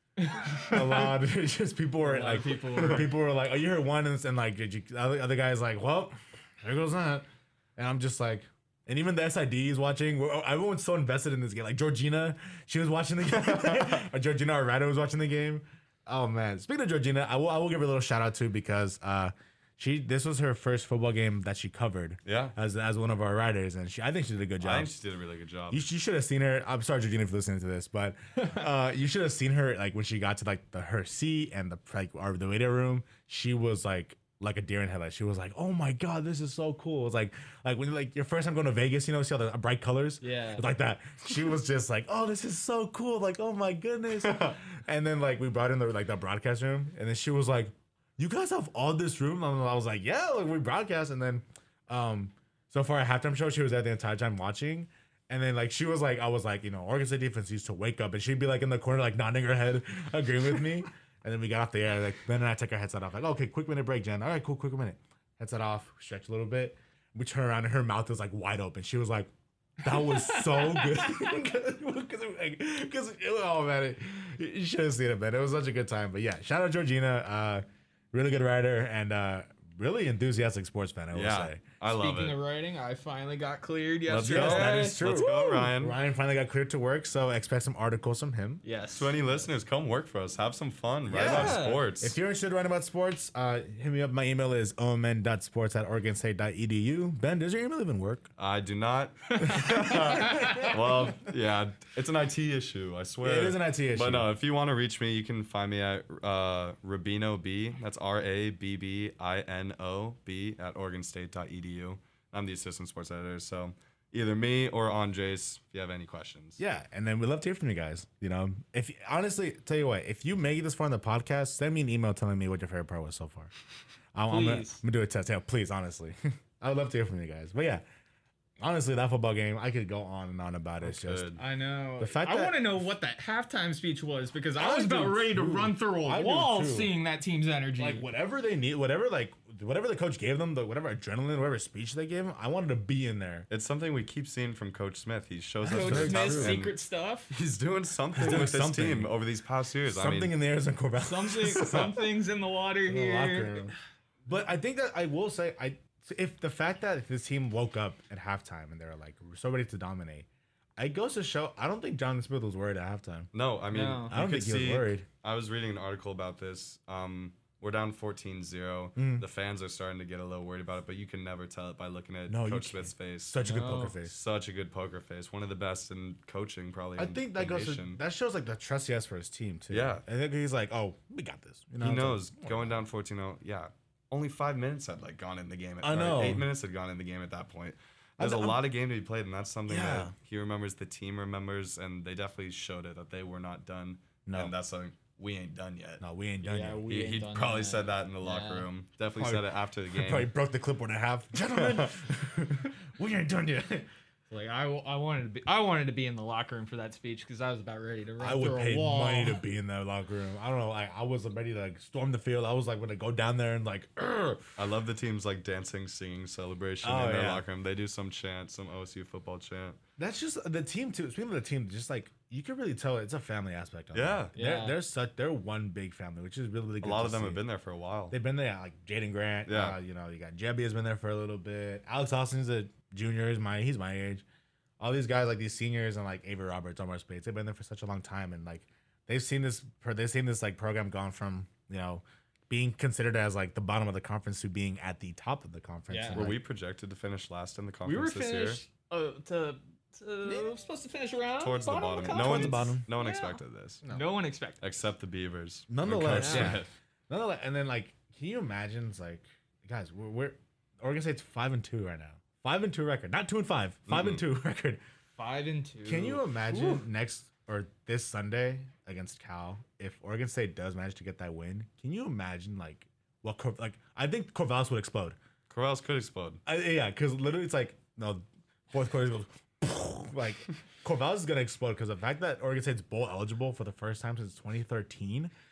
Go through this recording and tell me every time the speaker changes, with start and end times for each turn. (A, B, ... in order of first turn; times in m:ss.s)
0:00.2-0:01.2 A
0:00.6-0:24.9 B
0:02.0-0:03.1 A
0:13.3-0:14.0 C
0:22.2-0:22.6 C
0:24.6-0:25.8 C
0:25.7-1:09.3 B
0:40.2-0:40.6 A
1:09.8-1:21.6 B
1:09.8-1:11.2 A
1:21.1-1:22.4 C
1:21.8-1:25.8 A
1:24.1-1:26.0 C
1:24.2-1:28.6 B
1:28.6-1:29.4 A
1:28.9-1:32.2 C
1:31.1-1:38.3 B
1:31.1-1:31.9 A
1:38.4-1:56.6 C
1:39.4-1:40.7 A
1:39.4-1:41.2 B
1:43.2-1:44.3 B
1:56.6-2:03.5 B
2:04.1-2:07.8 B
2:04.3-2:04.8 A
2:08.6-2:11.3 B
2:10.8-2:11.4 C
2:11.4-2:18.1 A
2:12.0-2:12.6 B
2:14.6-2:17.0 B
2:17.8-2:23.5 B
2:23.5-2:26.8 C
2:25.6-2:26.6 B
2:25.7-2:27.3 A
2:27.3-2:30.3 C
2:28.2-2:29.1 B
2:29.9-2:32.1 B
2:31.0-2:33.7 A
2:32.9-2:33.7 B
2:34.3-2:43.3 B
2:43.3-2:53.4 C
2:43.7-2:44.2 A
2:44.1-2:45.1 B
2:49.0-2:49.3 B
2:52.3-2:54.2 B
2:53.4-2:54.0 A
2:54.0-2:58.0 C
2:57.0-3:02.8 B
2:59.7-3:00.0 C
3:01.8-3:16.0 C
3:05.8-3:06.5 B
3:08.2-3:08.6 B
3:09.7-3:10.1 B
3:14.3-3:14.5 B
3:16.0-3:16.8 B
3:16.4-3:18.7 A
3:16.9-3:20.3 C
3:19.2-3:23.9 B
3:21.6-3:21.9 C
3:24.3-3:29.4 A
3:28.2-3:34.6 B
3:34.6-3:39.8 C
3:36.8-3:37.4 B
3:40.0-3:47.4 B
3:43.9-3:44.3 C
3:44.4-3:44.8 A
3:46.8-3:48.2 C
3:48.1-3:54.2 B
3:49.5-3:49.8 C
3:54.8-4:06.4 B
4:05.9-4:06.3 A
4:06.1-4:08.6 C
4:07.8-4:14.6 A
4:10.2-4:10.6 B
4:11.4-4:13.8 C
4:12.0-4:12.9 B
4:14.6-4:16.7 C
4:15.7-4:24.8 B
4:16.2-4:16.6 A
4:23.9-4:24.2 C
4:25.2-4:26.8 A
4:25.9-4:35.2 B
4:35.5-4:36.4 C
4:36.5-4:45.3 B